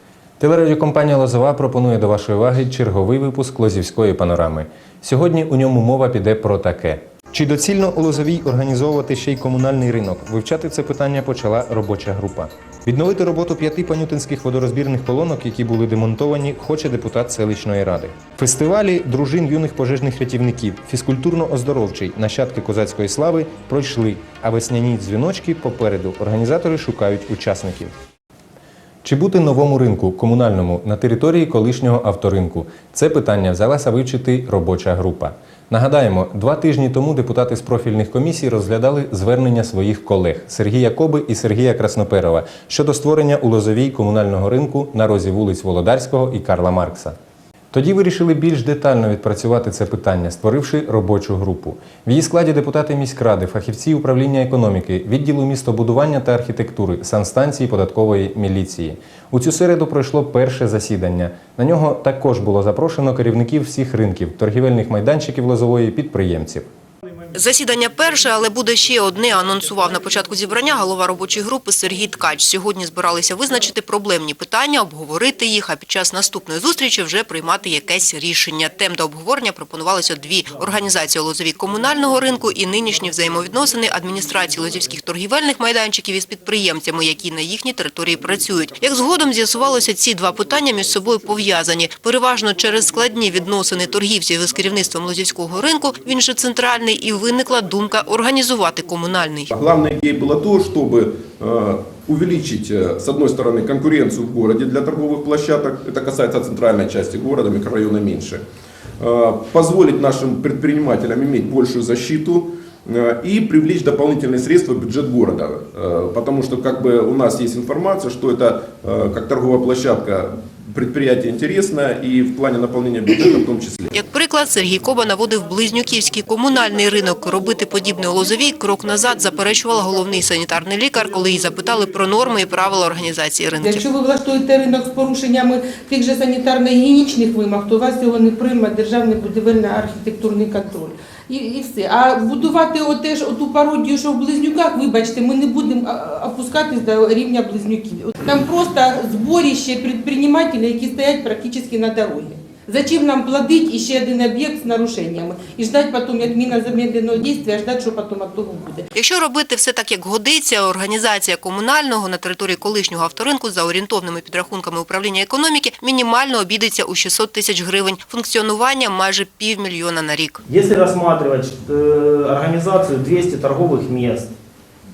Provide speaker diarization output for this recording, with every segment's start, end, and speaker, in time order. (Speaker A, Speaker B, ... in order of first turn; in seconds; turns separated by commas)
Speaker A: 0.4-27.9, Speaker A: 29.0-47.2, Speaker A: 47.7-66.7, Speaker B: 67.3-99.5, Speaker C: 99.5-108.4, Speaker C: 109.0-124.0, Speaker B: 123.9-133.8, Speaker D: 133.6-158.9, Speaker B: 158.9-170.4, Speaker E: 170.5-174.3